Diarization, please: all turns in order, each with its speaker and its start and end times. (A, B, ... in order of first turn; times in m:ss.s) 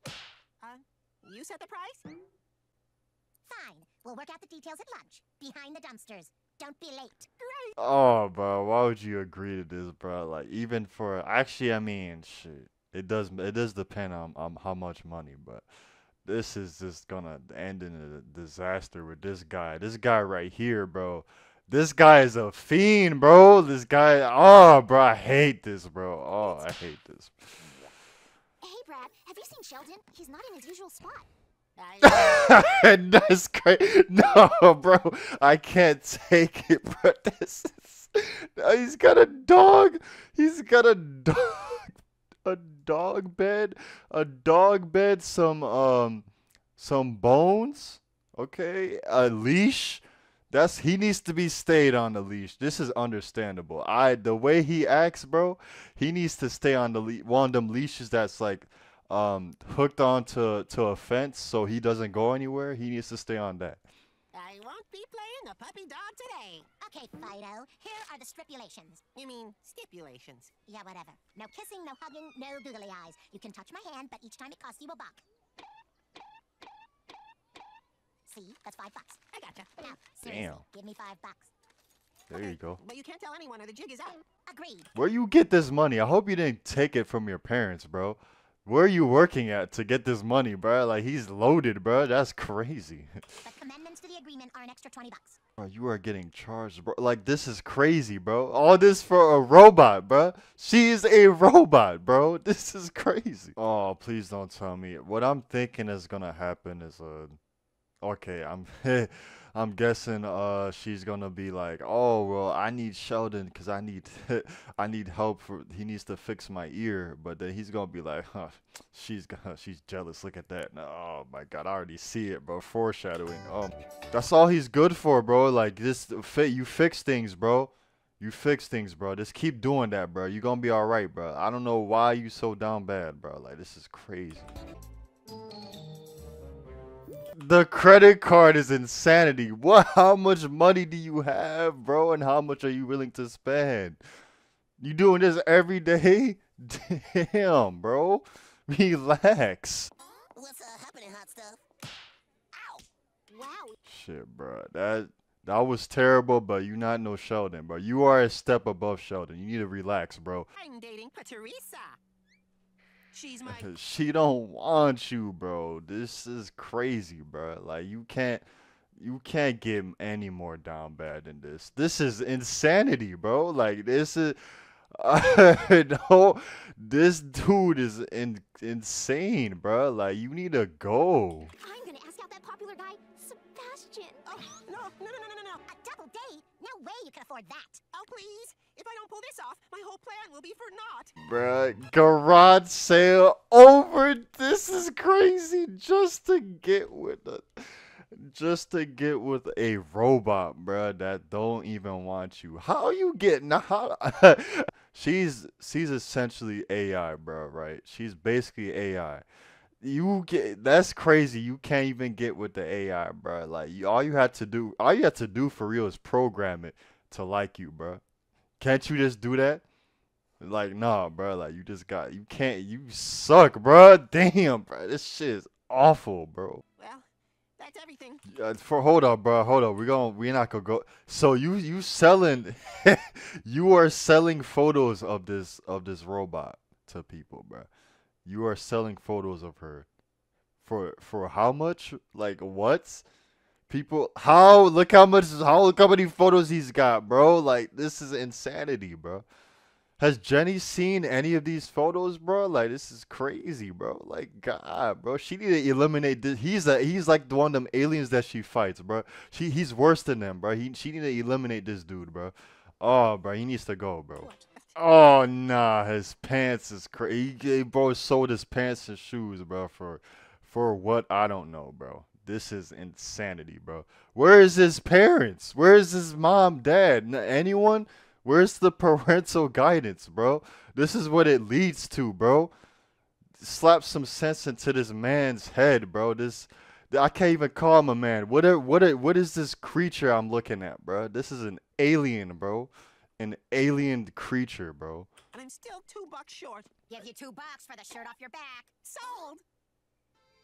0:00.6-0:02.0 A
0:03.4-0:07.3 B
0:07.4-0:07.7 A
0:07.8-0:15.6 C
0:16.2-0:27.3 C
0:26.3-0:26.7 B
0:28.6-0:31.3 B
0:31.8-0:32.9 A
0:32.0-0:46.2 C
0:46.8-1:03.8 C
1:04.3-1:06.7 A
1:06.8-1:09.0 B
1:09.2-1:10.5 A
1:10.7-1:15.2 B
1:18.3-1:19.2 B
1:19.3-1:19.9 A
1:19.8-1:21.5 B
1:20.2-1:20.6 C
1:22.3-1:22.8 C
1:22.4-1:24.2 A
1:24.4-1:24.9 B
1:24.9-1:33.1 C
1:33.4-1:35.4 B
1:35.6-1:47.4 C
1:48.0-2:14.5 C
2:17.3-2:24.0 C
2:24.8-2:29.9 C
2:30.3-2:31.6 B
2:32.5-2:33.8 B
2:33.8-2:40.5 C
2:40.6-2:42.0 A
2:43.1-2:43.7 A
2:43.5-2:48.4 C
2:49.0-2:54.4 C
2:55.0-3:01.5 C
3:01.6-3:04.4 B
3:04.2-3:05.6 A
3:05.7-3:07.8 B
3:07.9-3:11.1 A
3:11.2-3:29.2 C
3:29.8-3:38.0 C
3:38.6-3:39.6 C
3:40.4-3:46.6 C
3:46.8-3:47.0 A
3:47.6-3:48.2 A
3:48.3-3:57.7 C
3:58.2-3:59.9 C
4:00.6-4:03.0 C
4:03.7-4:09.2 C
4:10.0-4:42.5 C
4:24.2-4:24.7 A
4:43.4-4:55.1 C
4:55.3-4:56.7 A
4:56.9-4:59.3 B
4:58.8-4:59.4 A